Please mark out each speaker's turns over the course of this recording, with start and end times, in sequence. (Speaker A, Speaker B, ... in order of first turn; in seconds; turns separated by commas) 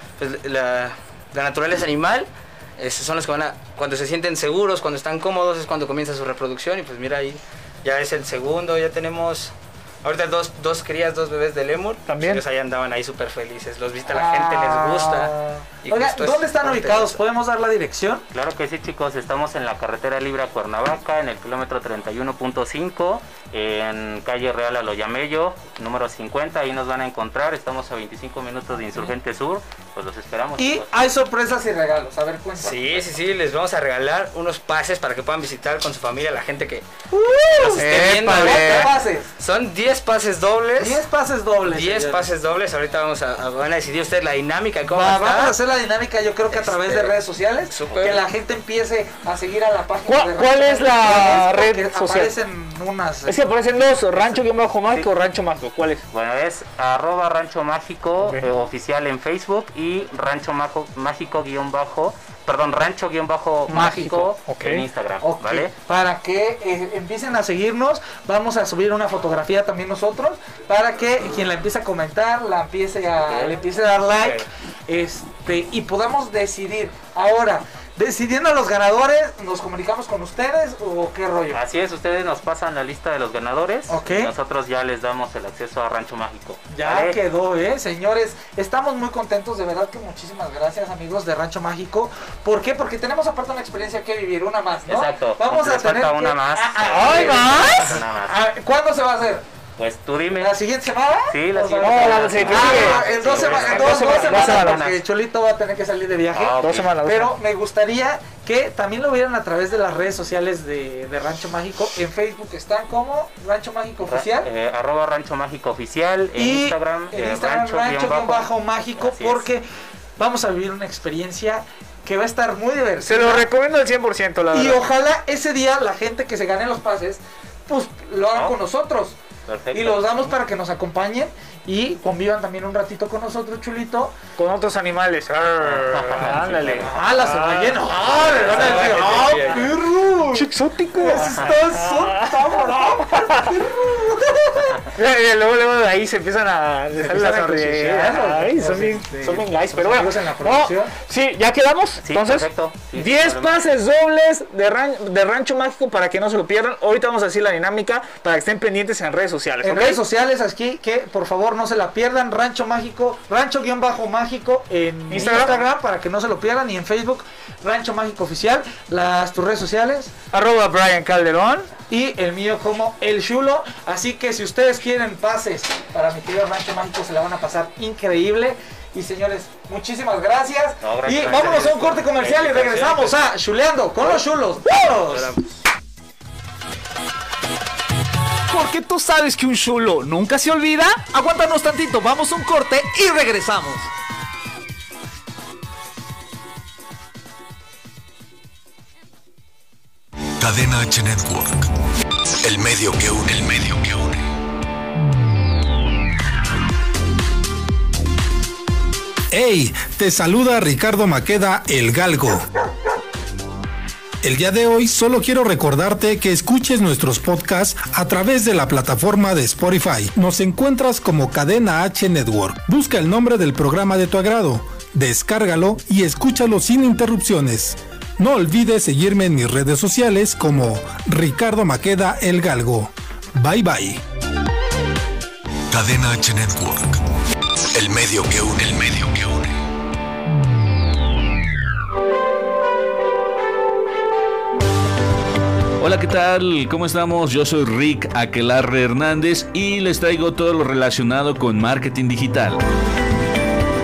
Speaker A: 0.2-17.2, Speaker B: 12.1-12.4, Speaker C: 14.1-18.2, Speaker D: 18.3-31.0, Speaker C: 30.6-33.0, Speaker A: 32.6-36.9, Speaker C: 37.1-39.3, Speaker A: 37.5-41.0, Speaker B: 37.8-38.9, Speaker C: 40.8-42.3, Speaker A: 41.6-45.5, Speaker C: 44.9-53.4, Speaker A: 46.5-47.1, Speaker A: 47.7-48.2, Speaker B: 50.1-52.3, Speaker B: 53.3-56.0, Speaker D: 54.1-54.4, Speaker D: 56.1-65.7, Speaker B: 63.7-64.9, Speaker C: 63.7-64.3, Speaker C: 65.2-81.6, Speaker D: 73.2-73.6, Speaker D: 81.5-87.2, Speaker C: 83.9-84.3, Speaker C: 86.7-99.4, Speaker D: 94.9-98.4, Speaker B: 96.9-98.0, Speaker D: 99.8-100.6, Speaker C: 100.4-114.5, Speaker D: 101.3-105.0, Speaker B: 101.8-104.9, Speaker D: 106.3-106.9, Speaker B: 106.6-107.3, Speaker D: 114.0-119.5, Speaker C: 116.4-119.6, Speaker C: 120.2-123.5, Speaker B: 123.0-124.8, Speaker C: 124.5-129.2, Speaker D: 129.5-130.3, Speaker C: 129.7-134.2, Speaker B: 134.4-139.1, Speaker D: 135.6-136.9, Speaker C: 136.7-144.8, Speaker A: 138.2-139.8, Speaker B: 140.3-143.5, Speaker B: 144.9-160.0, Speaker C: 147.0-150.9, Speaker D: 152.0-153.6, Speaker C: 159.6-170.1, Speaker B: 165.1-165.6, Speaker B: 170.3-171.7, Speaker C: 171.9-185.3, Speaker D: 180.8-182.1, Speaker A: 181.3-183.1, Speaker A: 184.9-185.5, Speaker E: 188.5-193.9, Speaker F: 200.4-201.7, Speaker F: 202.4-204.2, Speaker G: 209.3-212.4, Speaker G: 214.2-234.0, Speaker F: 235.7-237.0, Speaker F: 237.7-239.6, Speaker H: 245.8-252.6